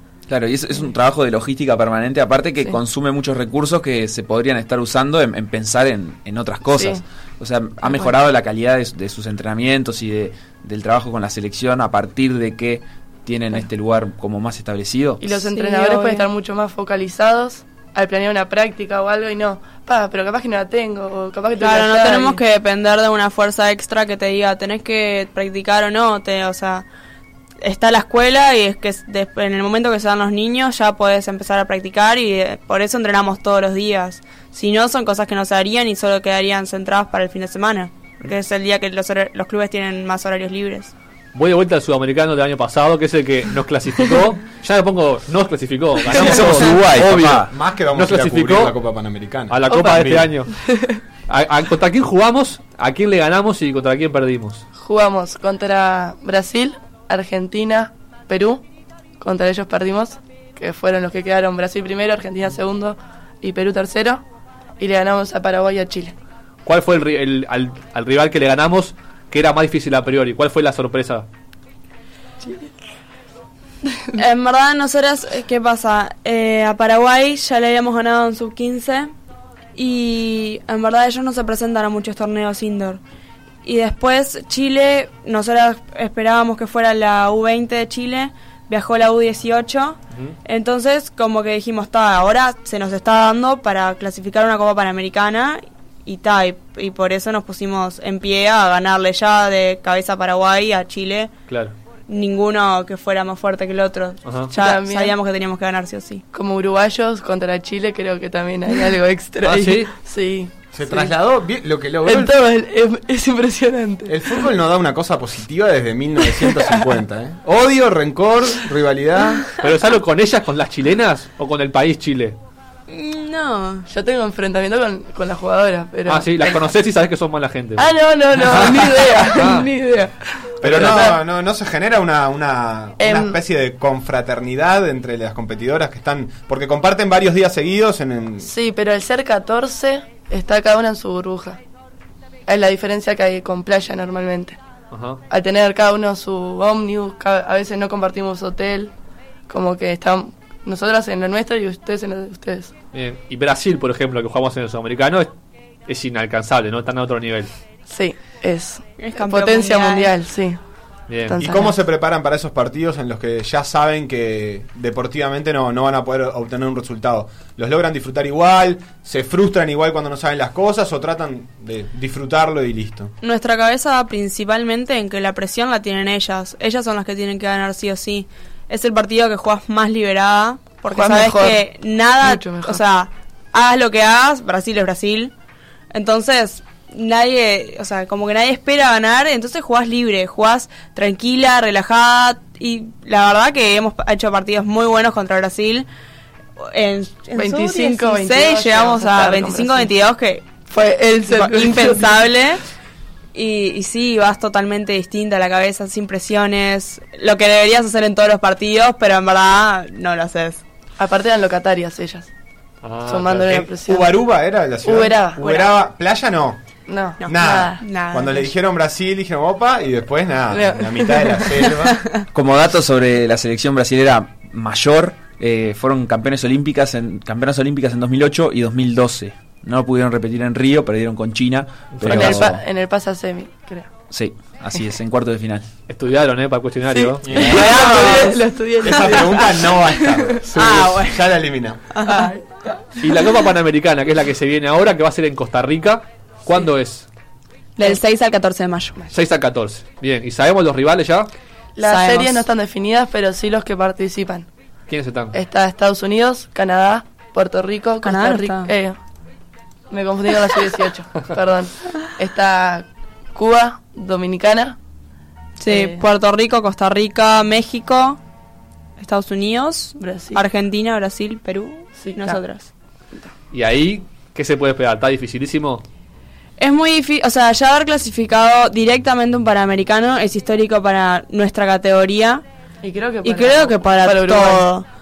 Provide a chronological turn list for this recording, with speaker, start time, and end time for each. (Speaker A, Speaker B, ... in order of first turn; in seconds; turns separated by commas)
Speaker A: 0.3-15.2, Speaker B: 6.7-7.0, Speaker B: 7.8-8.1, Speaker B: 15.2-22.4, Speaker C: 15.5-16.3, Speaker C: 21.6-26.9, Speaker C: 27.6-40.9, Speaker D: 41.3-48.8, Speaker A: 46.1-47.5, Speaker E: 47.4-50.3, Speaker D: 49.5-50.5, Speaker B: 49.7-50.0, Speaker B: 50.5-51.0, Speaker D: 51.3-54.6, Speaker B: 54.8-58.6, Speaker B: 59.2-64.2, Speaker B: 64.8-66.1, Speaker D: 66.7-71.2, Speaker C: 74.1-79.1, Speaker C: 79.7-83.0, Speaker C: 83.6-101.3, Speaker D: 101.5-101.7, Speaker C: 102.1-106.2, Speaker D: 104.2-104.5, Speaker B: 104.5-105.2, Speaker B: 106.3-111.1, Speaker D: 109.4-109.9, Speaker E: 110.7-112.3, Speaker B: 112.0-114.5, Speaker E: 114.1-119.6, Speaker B: 116.2-116.7, Speaker D: 119.6-122.4, Speaker C: 122.9-123.8, Speaker B: 123.9-126.6, Speaker D: 126.1-129.7, Speaker B: 127.8-131.2, Speaker E: 130.6-138.5, Speaker D: 130.6-131.0, Speaker B: 133.0-133.4, Speaker B: 138.4-141.6, Speaker B: 142.5-144.6, Speaker D: 144.9-145.2, Speaker B: 145.3-148.9, Speaker B: 149.5-152.7, Speaker D: 152.9-155.3, Speaker D: 155.9-157.5, Speaker B: 157.9-160.6, Speaker C: 159.0-160.1, Speaker D: 161.1-161.4, Speaker B: 161.3-161.8, Speaker E: 161.4-173.1, Speaker C: 173.2-185.3, Speaker B: 180.9-181.6, Speaker B: 182.2-182.8, Speaker C: 185.9-195.9, Speaker C: 196.6-200.4, Speaker B: 197.3-199.9, Speaker B: 200.7-202.3, Speaker C: 201.3-202.6, Speaker C: 203.3-210.6, Speaker B: 211.0-212.3, Speaker D: 212.8-213.5, Speaker B: 213.0-214.2, Speaker E: 213.4-216.6, Speaker B: 214.8-215.5, Speaker C: 215.4-215.8, Speaker B: 216.9-217.8, Speaker C: 217.2-218.5, Speaker E: 217.3-222.0, Speaker B: 220.5-221.7, Speaker A: 222.3-232.6, Speaker D: 231.9-232.5, Speaker B: 232.1-233.9, Speaker A: 234.1-235.7, Speaker D: 235.9-237.5, Speaker B: 236.9-240.4, Speaker E: 237.2-241.9, Speaker C: 237.5-238.4, Speaker D: 240.5-240.9, Speaker C: 240.5-241.2, Speaker C: 241.9-242.3, Speaker B: 242.0-243.0, Speaker D: 243.0-247.1, Speaker C: 247.8-249.0, Speaker D: 249.1-251.3, Speaker B: 251.8-254.5, Speaker C: 251.8-252.4, Speaker D: 254.9-255.3, Speaker B: 255.3-259.0, Speaker C: 258.0-258.7, Speaker B: 259.9-264.8, Speaker C: 265.6-268.2, Speaker B: 265.7-266.0, Speaker C: 269.0-272.7, Speaker B: 270.0-270.4, Speaker B: 272.0-272.4, Speaker D: 273.5-275.8, Speaker C: 276.6-282.4, Speaker B: 282.8-284.7, Speaker C: 283.2-284.9